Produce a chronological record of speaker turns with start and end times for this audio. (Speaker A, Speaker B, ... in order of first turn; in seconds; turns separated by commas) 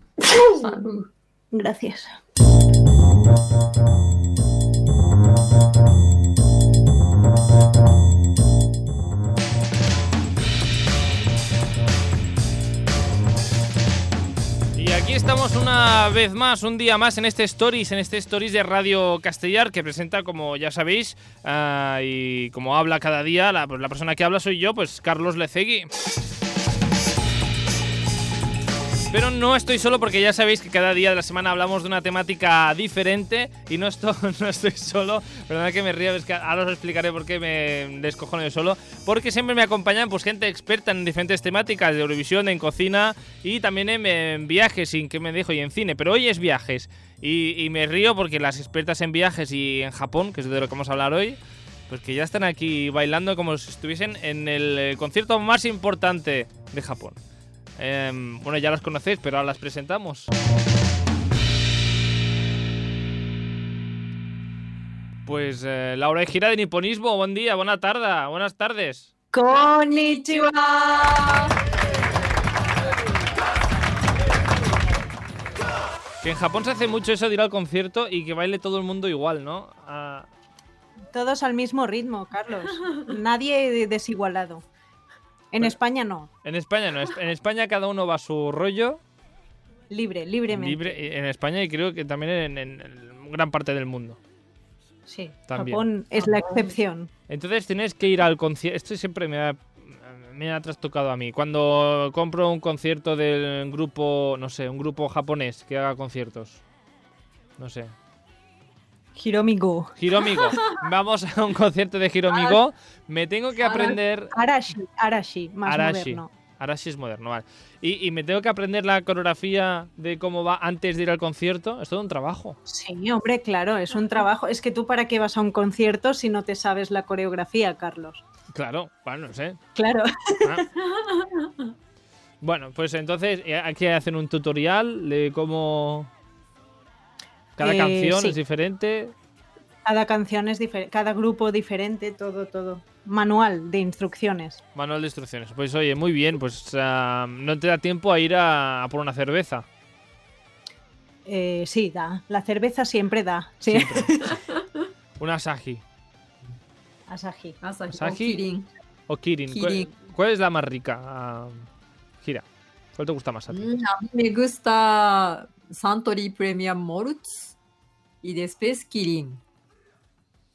Speaker A: 0.3-1.1, Speaker B: 1.5-2.1, Speaker C: 14.7-25.9, Speaker C: 29.1-57.2, Speaker C: 57.8-60.3, Speaker C: 65.2-69.1, Speaker B: 69.3-71.5, Speaker C: 76.2-80.3, Speaker B: 81.1-84.6, Speaker B: 85.5-86.3, Speaker C: 86.4-89.0, Speaker B: 89.9-90.8, Speaker C: 90.5-94.2, Speaker B: 95.1-97.1, Speaker C: 95.5-95.8, Speaker A: 96.3-96.6, Speaker C: 97.3-106.6, Speaker C: 107.6-107.9, Speaker B: 109.2-109.9, Speaker C: 110.0-114.3, Speaker A: 110.5-110.8, Speaker A: 112.3-112.6, Speaker B: 114.3-116.3, Speaker C: 115.7-122.6, Speaker B: 122.7-128.2, Speaker C: 128.5-129.6, Speaker B: 129.8-130.7, Speaker A: 130.9-131.6, Speaker C: 132.4-136.1, Speaker C: 137.6-139.1, Speaker B: 137.6-138.4, Speaker B: 139.8-144.6, Speaker C: 144.8-149.7, Speaker B: 151.2-154.4, Speaker C: 153.7-154.1, Speaker A: 154.3-154.9, Speaker C: 155.2-155.8, Speaker B: 157.1-157.6, Speaker A: 157.6-158.7, Speaker C: 157.9-158.4, Speaker C: 159.1-161.7, Speaker A: 159.5-159.9, Speaker C: 162.2-163.7, Speaker A: 163.5-167.6, Speaker A: 168.2-169.4